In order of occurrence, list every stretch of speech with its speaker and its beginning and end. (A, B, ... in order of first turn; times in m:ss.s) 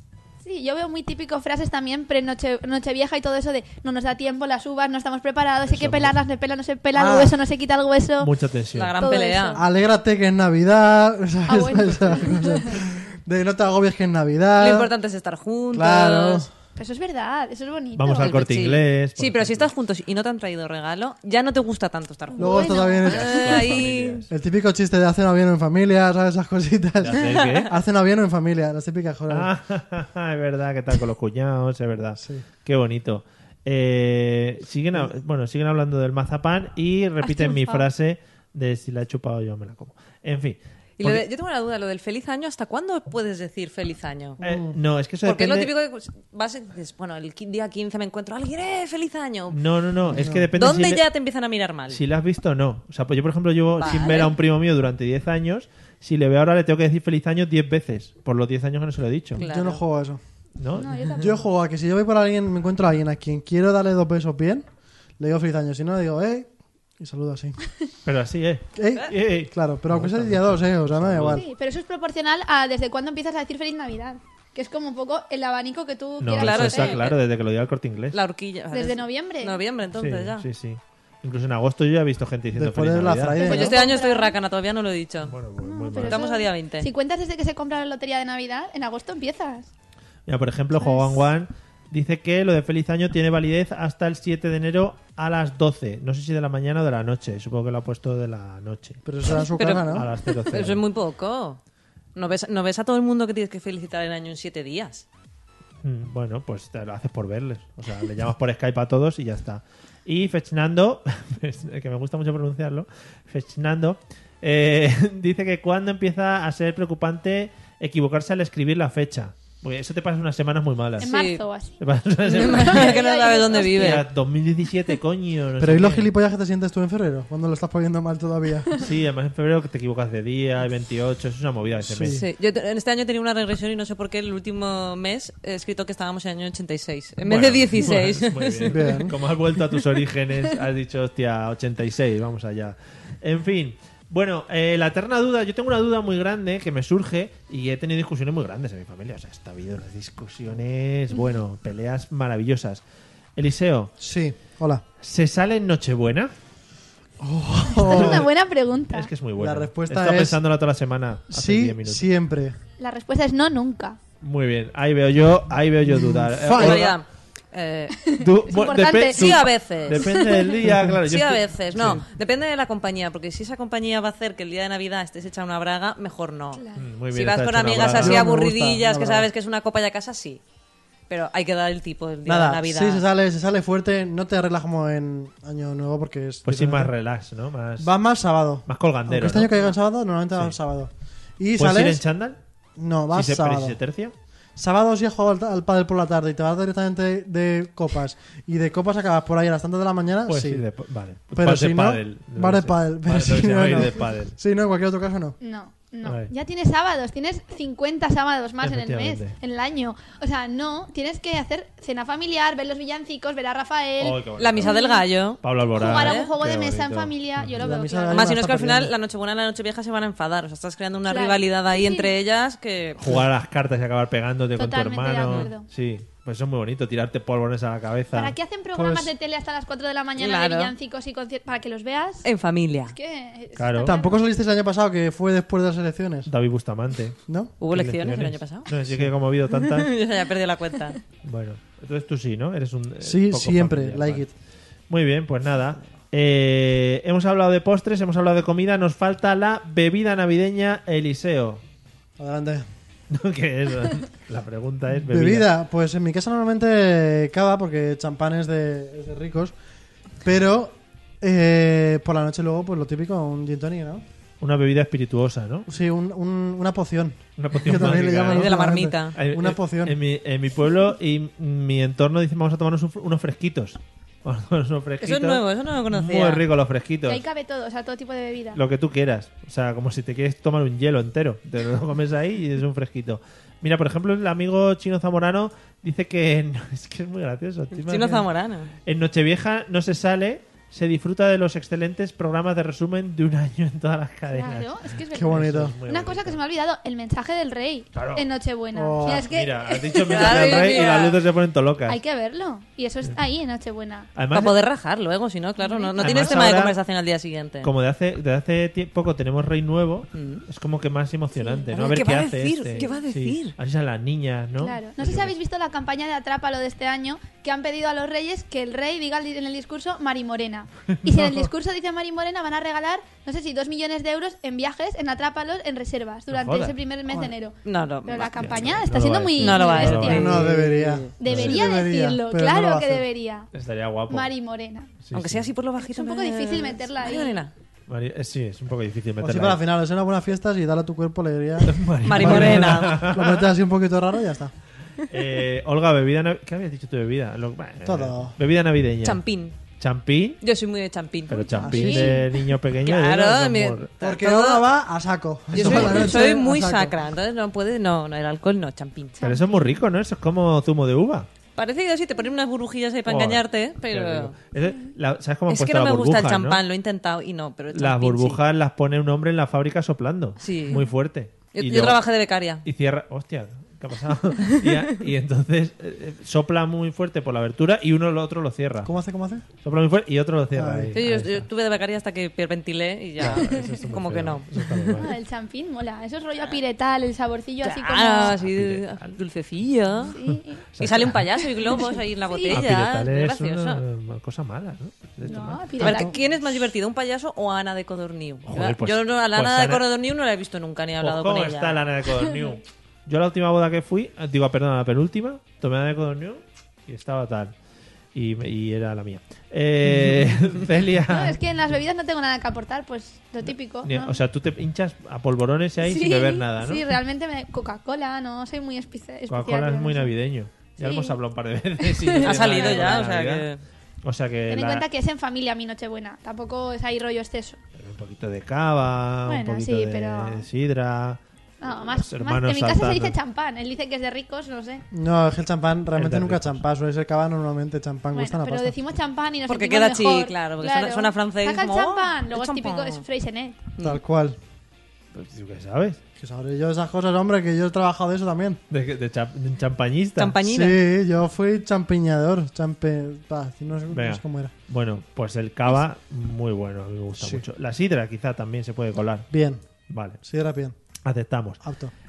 0:00.4-0:08.3 A
0:05.7-0:06.1 B
0:06.9-0:07.4 C
0:08.2-0:08.9 B
0:08.7-0:09.6 D
0:09.0-0:09.6 A
0:09.5-0:14.9 C
0:11.5-0:12.8 A
0:14.6-0:16.5 D
0:15.7-0:16.5 C
0:16.8-0:18.4 A
0:17.9-0:19.7 B
0:18.2-0:24.2 D
0:22.3-0:23.6 A
0:22.4-0:23.5 C
0:23.0-0:24.3 B
0:24.3-0:29.5 C
0:27.0-0:27.7 B
0:27.2-0:27.6 D
0:29.3-0:41.2 B
0:32.2-0:32.4 C
0:37.2-0:37.8 A
0:41.0-0:44.4 D
0:44.4-0:44.8 C
0:44.4-0:45.7 B
0:45.2-0:49.6 D
0:49.5-0:51.0 B
0:50.1-0:50.5 C
0:50.6-0:52.0 D
0:51.9-0:59.4 B
0:53.8-0:54.3 D
0:59.4-0:59.8 D
0:59.4-1:00.2 C
1:00.6-1:01.1 B
1:00.8-1:01.4 A
1:01.2-1:04.6 C
1:05.2-1:07.6 C
1:08.0-1:11.4 B
1:08.7-1:11.5 C
1:11.3-1:17.0 A
1:16.2-1:18.2 B
1:16.4-1:17.2 D
1:18.1-1:20.4 D
1:18.7-1:19.6 A
1:19.9-1:23.4 B
1:22.6-1:23.8 C
1:23.3-1:24.4 A
1:23.4-1:25.3 D
1:25.3-1:26.3 B
1:25.6-1:29.7 A
1:26.0-1:26.9 D
1:30.3-1:39.0 B
1:30.8-1:31.2 A
1:39.0-1:40.1 C
1:39.5-1:41.6 D
1:39.8-1:40.8 B
1:42.1-1:45.0 D
1:45.8-2:01.1 B
2:01.0-2:01.8 A
2:01.0-2:01.4 D
2:01.8-2:03.0 B
2:02.2-2:04.0 D
2:02.4-2:04.0 A
2:03.7-2:06.1 B
2:05.6-2:08.7 C
2:08.8-2:12.2 B
2:11.8-2:12.2 C
2:12.1-2:18.7 D
2:17.2-2:32.8 B
2:18.6-2:19.2 C
2:33.4-2:33.9 B
2:34.0-2:34.8 C
2:35.0-2:36.3 B
2:37.2-2:38.3 C
2:37.7-2:39.1 A
2:37.9-2:38.3 B
2:38.9-2:42.0 B
2:39.4-2:40.4 C
2:41.3-2:42.6 C
2:42.8-2:44.0 A
2:44.2-2:47.0 B
2:45.8-2:46.9 C
2:46.5-2:48.0 D
2:48.0-2:49.4 A
2:48.2-2:52.0 B
2:49.0-2:50.2 D
2:49.9-2:50.5 A
2:51.0-3:00.4 D
2:56.6-2:56.8 A
2:56.7-2:58.3 B
2:57.8-2:59.3 C
3:01.1-3:03.0 D
3:02.2-3:06.9 C
3:06.4-3:07.9 B
3:07.8-3:12.0 C
3:08.6-3:09.7 B
3:11.6-3:12.4 B
3:12.8-3:13.8 C
3:13.1-3:14.1 B
3:14.6-3:20.6 C
3:20.3-3:24.4 B
3:21.3-3:25.4 C
3:25.4-3:35.0 A
3:26.0-3:26.3 B
3:28.6-3:29.3 B
3:34.0-3:34.7 B
3:34.4-3:36.3 D
3:35.4-3:37.6 B
3:35.7-3:38.4 A
3:37.6-3:38.9 C
3:38.1-3:43.1 D
3:41.1-3:42.1 A
3:43.0-3:48.3 B
3:44.6-3:45.7 A
3:45.2-3:45.5 D
3:48.1-3:52.3 A
3:48.7-3:49.1 C
3:50.2-3:50.7 D
3:52.2-3:53.0 D
3:52.9-3:54.2 A
3:53.6-3:54.0 B
3:53.8-3:56.3 C
3:56.3-3:57.2 B
3:57.3-3:57.5 C
3:57.6-3:58.7 D
3:57.7-3:59.9 B
3:59.5-4:01.0 D
4:01.2-4:04.2 B
4:03.0-4:04.3 C
4:04.9-4:11.6 B
4:12.2-4:12.6 C
4:13.1-4:15.5 B
4:15.0-4:19.5 C
4:20.2-4:24.0 C
4:24.4-4:25.7 B
4:25.7-4:30.0 C
4:27.4-4:37.2 B
4:28.2-4:29.2 D
4:35.0-4:36.4 D
4:37.0-4:38.6 A
4:38.5-4:48.3 B
4:47.8-4:48.7 D
4:48.8-4:56.4 B
4:54.3-5:00.9 A
4:55.1-4:55.7 C
4:57.9-4:58.3 B
4:58.7-4:59.3 C
4:59.0-5:02.0 B
5:00.1-5:01.2 D
5:01.9-5:04.1 A
5:04.1-5:04.5 B
5:04.3-5:07.7 D
5:05.6-5:06.4 A
5:06.0-5:06.8 B
5:07.6-5:15.4 B
5:10.1-5:10.4 D
5:11.4-5:11.6 A
5:11.7-5:13.5 D
5:14.6-5:30.4 A
5:20.9-5:21.4 B
5:26.3-5:26.8 B
5:27.6-5:28.7 D
5:28.2-5:30.4 B
5:29.4-5:31.1 D
5:30.0-5:33.0 C
5:31.2-5:33.5 A
5:31.2-5:31.6 B
5:33.5-5:34.3 B
5:34.1-5:34.9 A
5:35.0-5:35.5 B
5:35.1-5:37.5 D
5:35.8-5:37.4 A
5:37.9-5:39.6 B
5:39.2-5:44.5 C
5:41.6-5:43.5 B
5:42.0-5:43.0 D
5:45.0-5:49.2 B
5:47.8-5:48.3 C
5:49.0-5:49.6 D
5:49.8-5:50.4 B
5:50.4-5:52.0 D
5:51.3-5:53.9 B
5:51.4-5:52.3 A
5:51.6-5:52.2 C
5:52.8-5:54.6 D
5:54.0-5:57.0 C
5:55.5-5:56.1 B
5:55.5-5:59.2 D
5:59.2-5:59.8 A
5:59.2-6:01.3 B
6:01.5-6:04.3 D
6:03.0-6:06.6 B
6:05.5-6:08.4 D
6:07.7-6:12.0 B
6:10.4-6:10.8 D
6:11.5-6:12.6 D
6:12.6-6:18.9 B
6:18.8-6:19.4 C
6:19.6-6:21.5 B
6:20.5-6:21.0 C
6:20.9-6:24.8 D
6:23.2-6:25.1 B
6:24.9-6:28.4 A
6:27.6-6:30.2 D
6:28.3-6:29.2 B
6:30.1-6:30.6 A
6:30.7-6:31.2 B
6:30.8-6:33.8 D
6:31.7-6:32.6 A
6:32.5-6:36.1 B
6:35.2-6:36.1 A
6:35.8-6:41.8 D
6:38.4-6:39.8 B
6:41.0-6:47.5 B
6:48.1-6:51.4 B
6:51.1-6:54.2 A
6:53.4-6:56.9 B
6:55.8-7:00.1 A
6:59.3-7:03.5 B
7:00.8-7:01.2 A
7:01.8-7:03.0 A
7:02.2-7:03.6 D
7:04.0-7:04.8 B
7:04.5-7:07.6 A
7:07.8-7:13.2 B
7:09.3-7:10.4 A
7:11.6-7:14.8 A
7:14.9-7:18.8 C
7:15.9-7:16.6 B
7:18.1-7:23.6 A
7:19.5-7:23.0 D
7:23.8-7:24.4 C
7:25.1-7:26.0 B
7:26.2-7:28.6 C
7:28.7-7:30.4 B
7:30.2-7:30.8 D
7:30.4-7:34.5 C
7:33.9-7:39.3 B
7:37.2-7:37.4 C
7:39.3-7:39.6 C
7:39.9-7:40.2 B
7:40.2-7:40.7 C
7:41.0-7:41.6 B
7:41.6-7:41.9 C